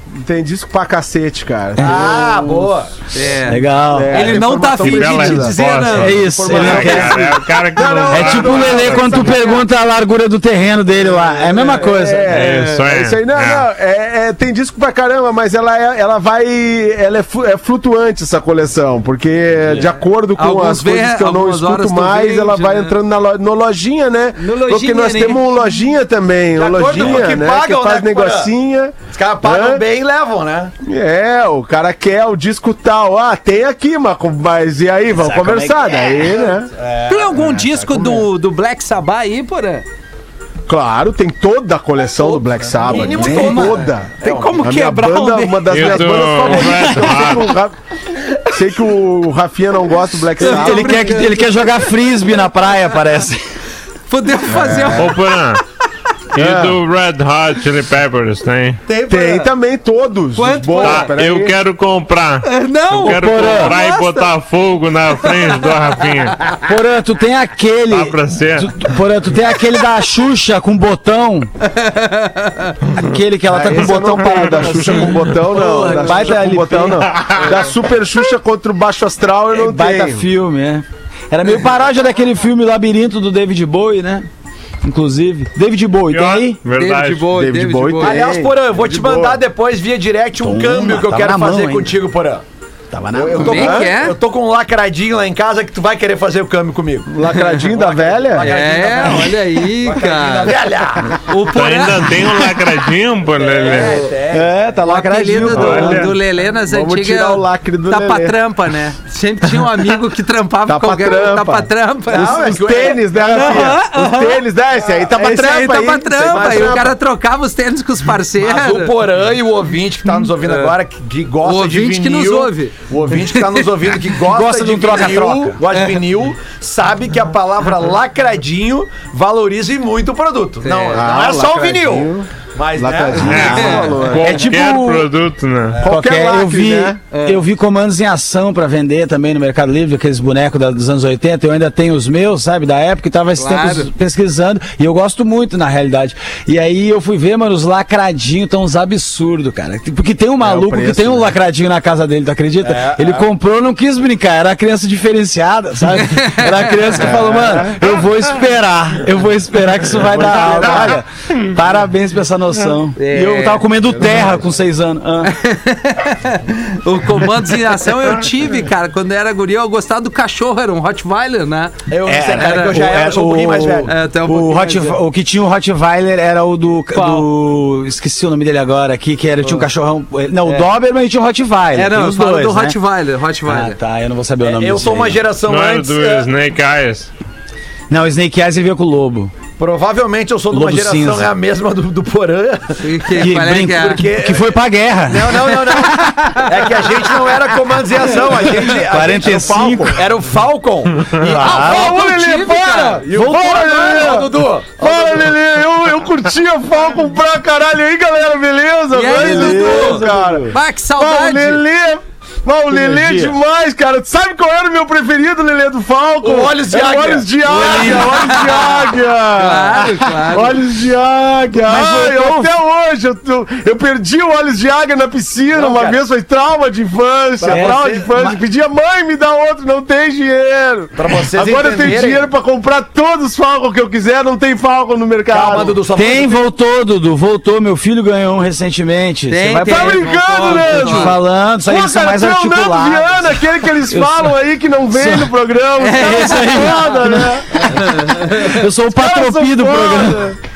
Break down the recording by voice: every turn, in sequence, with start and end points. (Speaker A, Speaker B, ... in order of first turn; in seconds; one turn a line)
Speaker A: 0.2-2.7
Speaker B: 1.8-2.9
Speaker C: 3.1-6.9
Speaker D: 3.4-4.3
Speaker A: 3.9-5.5
Speaker E: 4.4-9.4
Speaker D: 6.0-7.4
Speaker A: 6.3-9.6
Speaker D: 8.1-12.4
Speaker A: 11.2-29.8
Speaker C: 11.5-12.8
Speaker E: 12.3-13.7
Speaker C: 20.4-23.0
Speaker C: 24.4-25.9
Speaker B: 26.5-28.5
Speaker B: 29.1-30.7
Speaker A: 30.8-36.7
Speaker D: 35.1-36.5
Speaker B: 36.7-37.3
Speaker C: 37.1-39.8
Speaker A: 37.3-38.3
Speaker A: 40.7-47.8
Speaker B: 42.1-44.6
Speaker D: 42.9-43.8
Speaker C: 44.2-46.2
Speaker E: 45.7-47.5
Speaker D: 46.5-47.4
Speaker A: 48.5-51.3
Speaker C: 50.4-51.8
Speaker D: 50.4-53.4
Speaker C: 54.1-55.5
Speaker A: 54.5-55.1
Speaker E: 55.0-55.6
Speaker E: 56.3-58.8
Speaker A: 56.3-56.8
Speaker C: 58.9-59.5
Speaker A: 59.1-61.6
Speaker C: 60.3-61.1
Speaker E: 60.8-66.5
Speaker C: 62.4-64.4
Speaker D: 63.0-63.8
Speaker D: 66.6-71.5
Speaker E: 67.9-68.7
Speaker C: 71.6-72.8
Speaker D: 72.9-77.3
Speaker A: 73.5-80.3
Speaker E: 74.3-75.1
Speaker D: 79.5-84.3
Speaker D: 84.8-86.6
Speaker E: 86.1-87.3
Speaker C: 86.7-88.2
Speaker A: 87.3-89.4
Speaker B: 88.0-92.4
Speaker D: 90.4-92.0
Speaker D: 92.9-93.8
Speaker B: 93.1-101.2
Speaker C: 93.3-94.2
Speaker A: 93.6-93.9
Speaker A: 97.1-98.5
Speaker C: 97.2-97.7
Speaker C: 98.4-100.5
Speaker C: 101.1-102.4
Speaker E: 101.5-104.0
Speaker B: 103.3-104.6
Speaker C: 103.7-104.1
Speaker D: 104.3-106.2
Speaker C: 104.8-114.4
Speaker E: 105.5-106.1
Speaker A: 106.7-108.4
Speaker A: 110.7-116.9
Speaker B: 112.1-113.5
Speaker C: 115.1-119.0
Speaker B: 116.2-116.9
Speaker B: 118.4-133.6
Speaker C: 120.1-120.7
Speaker C: 121.4-123.9
Speaker D: 124.2-125.6
Speaker C: 125.7-126.0
Speaker C: 130.6-131.2
Speaker A: 130.9-135.0
Speaker E: 133.2-135.8
Speaker C: 133.2-134.3
Speaker D: 134.2-135.0
Speaker A: 135.8-137.0
Speaker D: 135.8-165.3
Speaker C: 137.1-137.4
Speaker C: 143.3-143.9
Speaker A: 150.4-151.3
Speaker B: 152.6-153.3
Speaker C: 156.0-157.1
Speaker A: 157.0-157.8
Speaker A: 160.0-161.0
Speaker C: 163.0-163.6
Speaker C: 165.2-172.8
Speaker B: 171.9-173.9
Speaker D: 172.1-182.8
Speaker C: 173.9-175.0
Speaker C: 176.9-177.3
Speaker C: 181.7-183.8
Speaker D: 183.4-185.2
Speaker B: 184.4-186.3
Speaker E: 185.4-187.1
Speaker D: 187.9-189.3
Speaker B: 189.6-194.5
Speaker D: 190.5-191.3
Speaker C: 192.8-194.0
Speaker D: 193.2-195.8
Speaker B: 195.1-201.6
Speaker C: 195.7-196.7
Speaker D: 198.3-200.0
Speaker A: 199.6-199.9
Speaker D: 201.2-202.0
Speaker C: 201.4-203.1
Speaker A: 201.4-235.8
Speaker B: 203.1-205.3
Speaker D: 203.1-203.7
Speaker C: 208.9-211.6
Speaker D: 209.0-210.6
Speaker D: 212.7-213.4
Speaker B: 216.2-218.7
Speaker C: 217.5-220.6
Speaker D: 221.5-222.5
Speaker B: 225.5-226.0
Speaker B: 227.4-228.1
Speaker D: 227.4-228.4
Speaker B: 230.9-232.3
Speaker B: 235.3-236.4
Speaker D: 235.9-244.4
Speaker C: 239.3-241.2
Speaker A: 239.6-247.7
Speaker D: 244.9-245.3
Speaker C: 245.8-246.9
Speaker D: 245.9-250.3
Speaker C: 247.5-248.6
Speaker A: 248.9-250.4